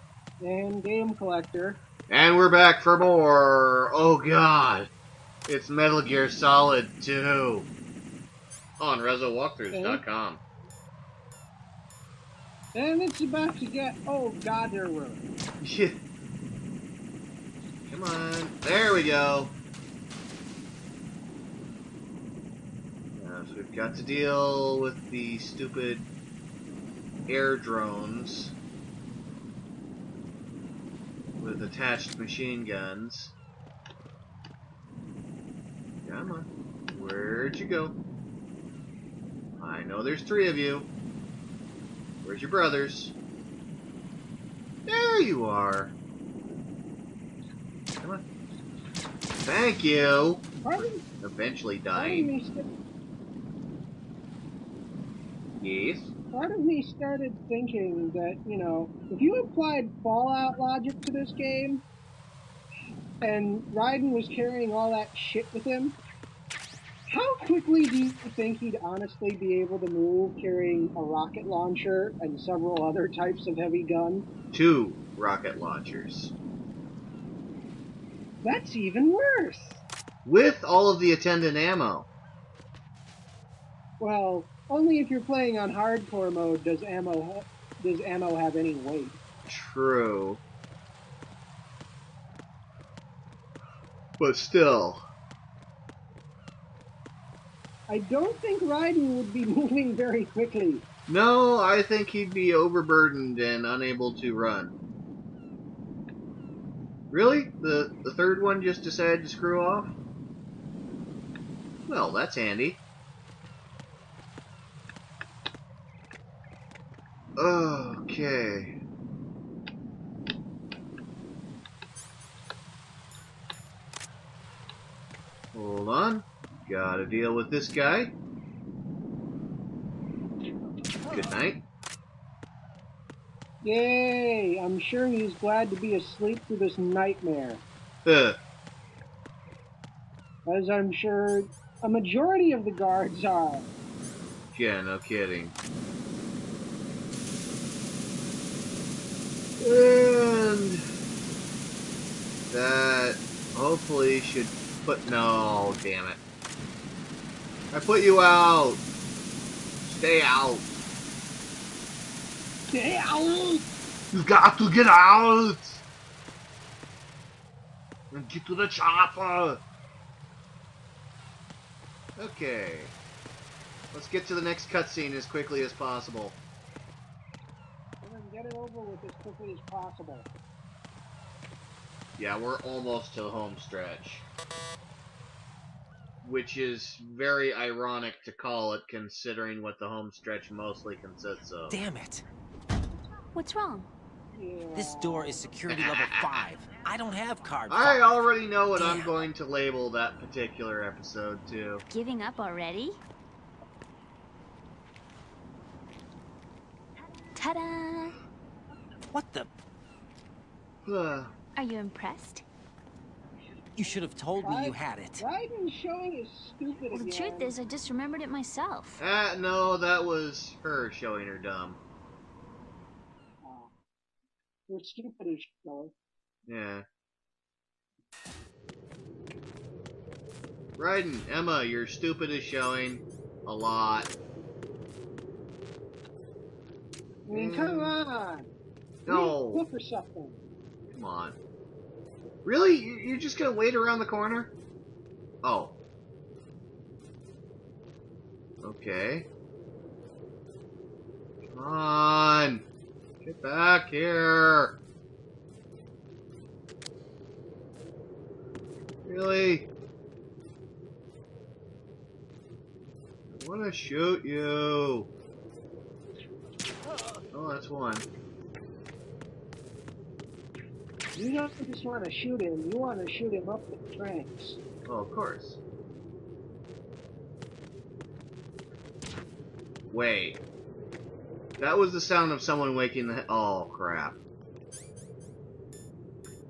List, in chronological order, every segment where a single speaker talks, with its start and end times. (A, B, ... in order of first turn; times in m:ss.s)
0:00.4-0:01.8 A
0:02.1-0:04.9 B
0:05.5-0:07.7 B
0:08.8-0:10.4 B
0:09.7-0:10.0 A
0:12.7-0:15.2 A
0:15.6-0:16.0 B
0:17.9-0:19.5 B
0:23.1-0:26.1 B
0:27.3-0:28.5 B
0:31.4-0:33.3 B
0:36.0-0:37.9 B
0:39.6-0:40.9 B
0:42.2-0:43.1 B
0:44.9-0:45.9 B
0:49.4-0:52.3 B
0:50.6-0:51.0 A
0:51.9-0:52.7 A
0:55.6-0:56.1 B
0:56.3-1:01.8 A
1:03.2-1:06.0 A
1:07.1-1:14.3 A
1:14.5-1:16.3 B
1:18.4-1:19.8 A
1:20.2-1:22.1 B
1:24.0-1:29.2 A
1:29.5-1:30.4 B
1:34.2-1:35.0 B
1:37.9-1:40.8 A
1:41.1-1:44.8 B
1:47.1-1:49.9 B
1:51.9-1:52.8 B
1:57.4-1:58.7 B
2:05.5-2:08.1 B
2:11.1-2:11.6 B
2:13.6-2:17.6 A
2:18.0-2:18.4 B
2:20.4-2:23.7 A
2:24.5-2:25.5 B
2:29.6-2:30.8 B
2:32.5-2:36.2 B
2:37.7-2:38.8 B
2:39.8-2:40.6 B
2:42.7-2:43.7 A
2:44.1-2:45.8 B
2:48.1-2:49.6 B
2:52.2-2:52.9 B
2:53.9-2:56.4 B
2:58.0-3:00.3 A
3:02.2-3:04.2 B
3:06.2-3:11.8 B
3:11.7-3:12.2 C
3:13.3-3:13.9 D
3:14.3-3:15.5 A
3:14.7-3:18.1 C
3:15.7-3:16.3 B
3:17.7-3:21.8 B
3:18.8-3:19.2 C
3:21.9-3:23.0 D
3:27.3-3:28.2 D
3:29.1-3:29.5 C
3:30.8-3:31.3 B
3:31.6-3:32.4 D
3:33.8-3:35.2 C
3:34.4-3:37.5 A
3:36.9-3:39.0 D
3:39.0-3:41.8 B
3:43.4-3:43.7 A
3:44.7-3:45.9 A
3:46.5-3:46.8 B
3:50.8-3:54.1 B
3:57.3-3:58.5 A
3:57.3-3:58.0 B
3:59.0-3:59.6 B
3:59.1-4:00.4 A
4:00.9-4:01.4 B
4:02.4-4:04.5 B
4:05.4-4:05.7 B
4:08.6-4:09.3 B
4:11.5-4:12.6 B
4:13.2-4:14.8 B
4:19.0-4:19.7 B
4:23.3-4:25.1 B
4:27.3-4:28.0 B
4:31.1-4:34.6 A
4:34.8-4:35.6 B
4:39.9-4:40.4 B
4:41.6-4:44.2 B